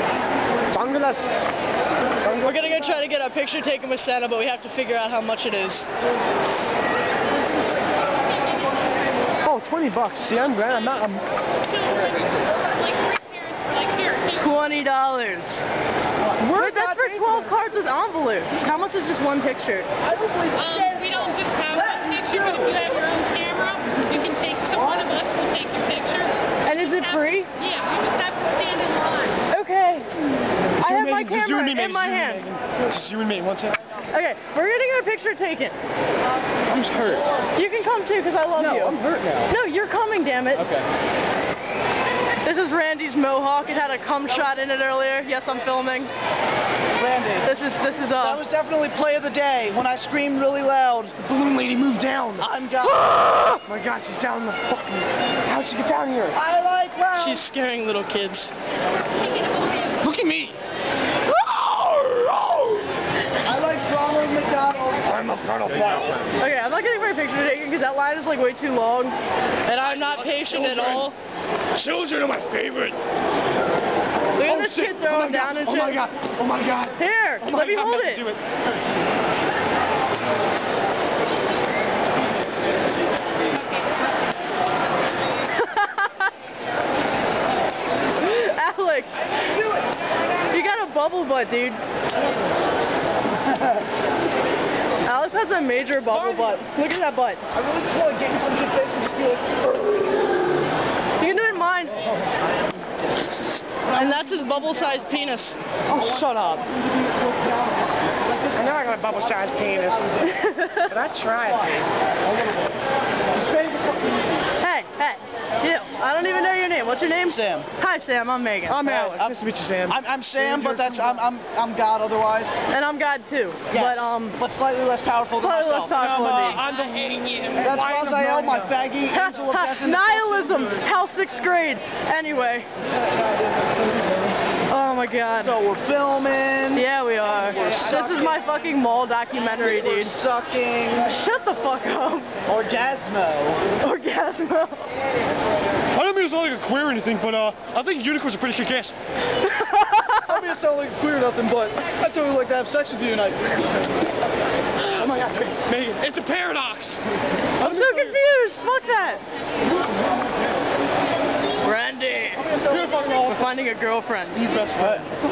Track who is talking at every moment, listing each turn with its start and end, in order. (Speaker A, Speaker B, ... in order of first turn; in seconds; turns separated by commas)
Speaker A: 0.7-1.3, Speaker B: 2.3-5.9, Speaker A: 9.4-11.2, Speaker C: 11.6-14.4, Speaker B: 14.4-15.6, Speaker D: 16.4-17.5, Speaker B: 16.5-19.9, Speaker D: 20.1-20.8, Speaker C: 20.5-29.4, Speaker B: 26.6-27.5, Speaker B: 29.5-30.1, Speaker B: 30.8-32.5, Speaker A: 30.8-33.8, Speaker B: 34.1-35.7, Speaker A: 36.7-37.2, Speaker B: 37.5-40.6, Speaker A: 38.6-39.5, Speaker A: 40.6-40.8, Speaker B: 42.4-46.1, Speaker D: 47.0-47.5, Speaker B: 47.4-48.4, Speaker D: 48.2-51.2, Speaker A: 51.2-56.4, Speaker D: 52.4-53.0, Speaker D: 56.3-57.4, Speaker B: 57.1-58.5, Speaker A: 60.0-60.6, Speaker A: 61.3-62.8, Speaker D: 63.4-65.2, Speaker A: 65.1-66.2, Speaker D: 65.8-66.1, Speaker B: 66.3-71.2, Speaker A: 69.8-71.1, Speaker A: 71.7-73.0, Speaker B: 74.3-76.1, Speaker A: 74.4-78.4, Speaker B: 77.0-78.3, Speaker B: 85.6-86.2, Speaker B: 88.1-89.4, Speaker D: 89.4-89.9, Speaker B: 90.5-91.8, Speaker B: 95.0-97.4, Speaker A: 96.2-96.6, Speaker D: 97.5-99.9, Speaker B: 101.2-102.0, Speaker D: 103.7-105.0, Speaker B: 103.9-105.6, Speaker A: 105.9-106.7, Speaker D: 105.9-110.4, Speaker A: 108.5-110.1, Speaker B: 110.2-110.9, Speaker A: 110.9-111.9, Speaker D: 113.3-114.4, Speaker B: 114.6-118.8, Speaker D: 117.2-117.7, Speaker A: 118.7-121.3, Speaker D: 118.8-122.6, Speaker B: 122.7-124.4, Speaker D: 123.7-126.2, Speaker B: 125.4-126.6, Speaker A: 125.9-128.7, Speaker C: 126.6-127.6, Speaker D: 127.6-130.9, Speaker B: 129.1-132.7, Speaker B: 134.7-135.6, Speaker D: 135.3-138.5, Speaker B: 136.7-140.2, Speaker D: 139.6-141.1, Speaker B: 141.0-142.3, Speaker D: 142.4-143.7, Speaker B: 143.8-144.9, Speaker A: 145.9-148.9, Speaker B: 149.4-150.4, Speaker D: 150.2-153.9, Speaker A: 154.9-157.0, Speaker D: 155.0-155.5, Speaker A: 157.6-158.2, Speaker B: 157.6-159.2, Speaker B: 161.6-164.9, Speaker D: 162.4-162.9, Speaker A: 162.7-163.4, Speaker A: 164.4-165.0